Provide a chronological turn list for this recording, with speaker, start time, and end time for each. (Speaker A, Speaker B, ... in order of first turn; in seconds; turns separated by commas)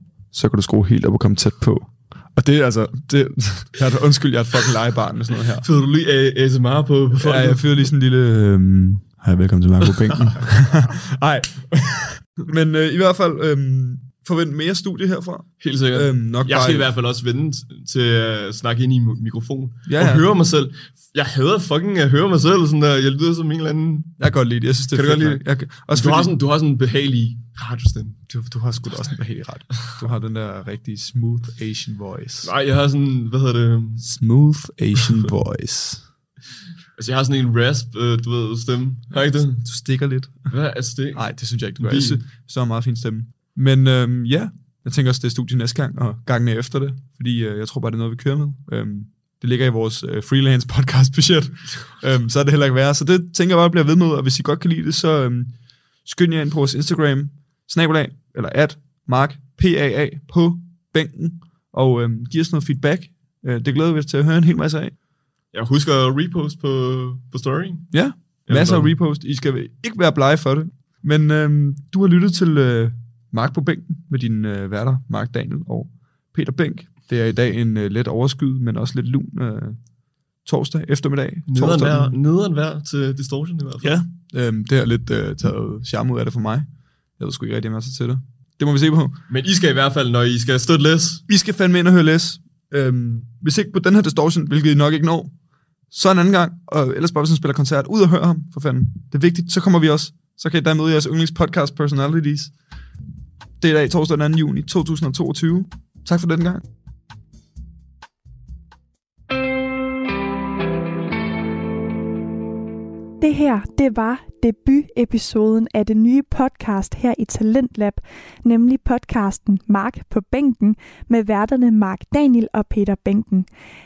Speaker A: 0.3-5.7, Speaker B: 5.6-7.7, Speaker A: 7.1-16.9, Speaker B: 9.8-10.4, Speaker B: 15.6-24.1, Speaker A: 19.9-20.2, Speaker A: 24.2-26.3, Speaker B: 24.9-28.2, Speaker A: 28.3-32.5, Speaker B: 32.4-34.0, Speaker A: 34.0-36.0, Speaker B: 37.0-39.6, Speaker A: 39.1-40.5, Speaker B: 40.5-41.3, Speaker A: 41.1-55.5, Speaker B: 41.8-42.2, Speaker A: 56.0-64.9, Speaker B: 65.5-67.9, Speaker A: 67.9-79.8, Speaker B: 68.5-68.9, Speaker A: 80.4-82.2, Speaker B: 81.5-83.9, Speaker A: 83.8-86.7, Speaker A: 87.2-89.2, Speaker B: 89.3-91.2, Speaker A: 91.3-95.3, Speaker A: 95.9-102.5, Speaker A: 103.6-106.6, Speaker C: 113.2-123.5